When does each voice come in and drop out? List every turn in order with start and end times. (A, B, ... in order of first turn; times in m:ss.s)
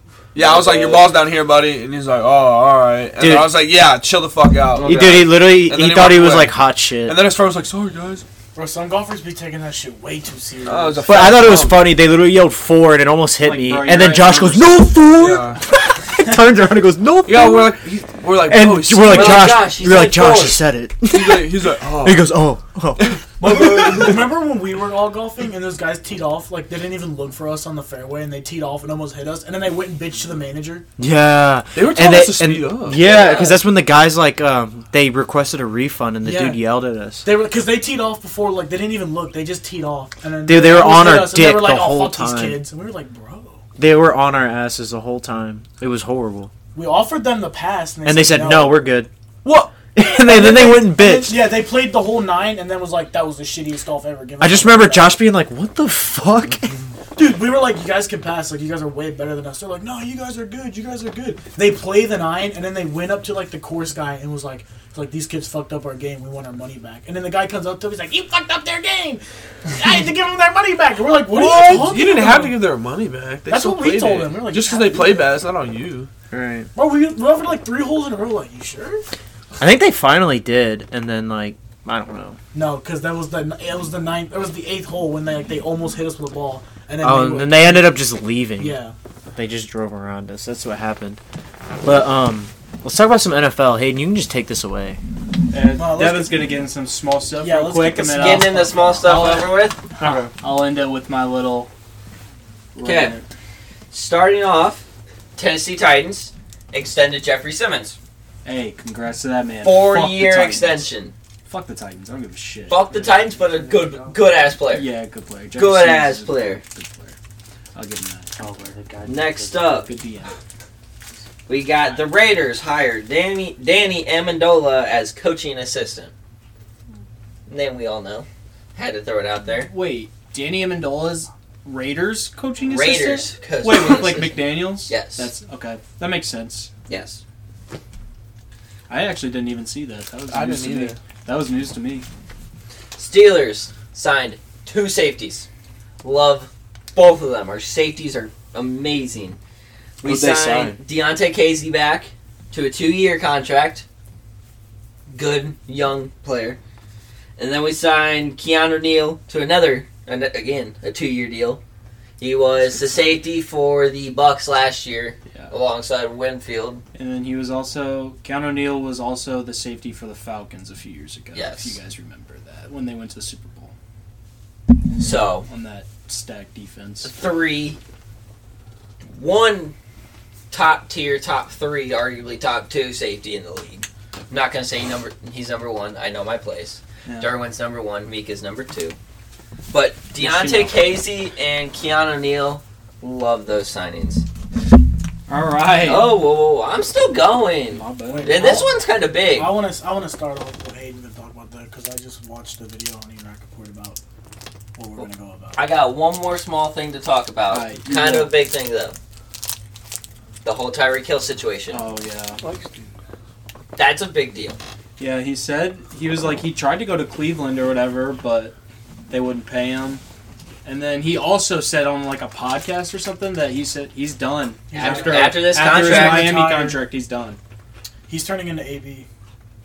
0:00.3-0:08.2 A
0:00.3-0:01.1 B
0:03.2-0:03.5 C
0:04.7-0:05.2 B
0:04.8-0:07.2 C
0:08.5-0:11.4 D
0:10.6-0:11.9 A
0:11.1-0:17.8 C
0:13.4-0:14.9 E
0:15.2-0:15.6 A
0:17.2-0:19.6 A
0:18.4-0:24.2 C
0:19.0-0:20.6 B
0:21.1-0:22.3 A
0:23.0-0:24.1 A
0:23.4-0:30.8 D
0:31.0-0:37.2 C
0:31.7-0:33.0 A
0:32.9-0:33.6 B
0:36.2-0:36.6 D
0:37.2-0:43.6 D
0:40.4-0:42.6 C
0:43.8-0:46.5 C
0:46.7-0:48.9 D
0:48.0-0:49.1 C
0:49.7-0:51.5 C
0:50.0-0:55.2 D
0:54.4-0:56.8 C
0:57.1-1:12.6 D
1:11.3-1:16.1 A
1:13.5-1:15.4 D
1:16.3-1:16.7 C
1:16.7-1:19.0 D
1:19.6-1:22.4 C
1:22.5-1:28.0 D
1:27.0-1:28.8 C
1:28.6-1:28.9 D
1:29.4-1:31.2 C
1:31.8-1:35.0 C
1:35.5-1:41.7 E
1:35.8-1:36.5 D
1:37.4-1:38.8 D
1:38.1-1:39.8 B
1:42.7-1:43.2 E
1:42.8-1:43.1 B
1:43.9-1:44.8 B
1:45.4-1:48.0 B
1:48.4-1:50.9 E
1:49.6-1:51.1 B
1:51.4-1:53.3 E
1:52.7-1:54.9 B
1:53.4-1:54.1 C
1:54.7-1:57.2 E
1:55.5-1:56.6 B
1:57.7-1:58.6 E
1:58.4-1:59.9 C
1:59.0-1:59.9 B
1:59.8-2:00.4 E
2:01.5-2:06.1 B
2:07.5-2:09.7 B
2:09.4-2:16.7 E
2:12.6-2:15.3 B
2:16.9-2:17.2 B
2:18.9-2:22.0 E
2:20.3-2:21.0 A
2:22.9-2:25.5 B
2:26.0-2:29.4 B
2:30.0-2:33.8 B
2:30.0-2:30.8 C
2:35.1-2:36.6 B
2:37.4-2:41.6 B
2:42.2-2:46.8 B
2:46.9-2:53.7 E
2:51.3-2:51.8 B
2:55.0-2:55.5 B
2:55.4-2:57.1 E
2:57.0-2:57.8 B
2:59.1-2:59.7 B
3:00.5-3:09.0 B
3:07.0-3:07.3 E
3:09.7-3:14.2 B
3:10.2-3:10.9 E
3:15.3-3:16.2 E
3:15.7-3:19.5 B
3:17.7-3:18.7 E
3:18.1-3:24.0 D
3:24.8-3:25.7 D
3:25.0-3:28.9 B
3:27.5-3:28.4 E
3:30.4-3:31.8 B
3:31.7-3:32.4 E
3:32.4-3:32.8 A
3:33.7-3:34.6 B
3:35.0-3:38.5 E
3:39.1-3:40.0 E
3:40.6-3:47.4 E
3:44.7-3:46.8 D
3:44.7-3:46.4 B
3:48.1-3:49.1 D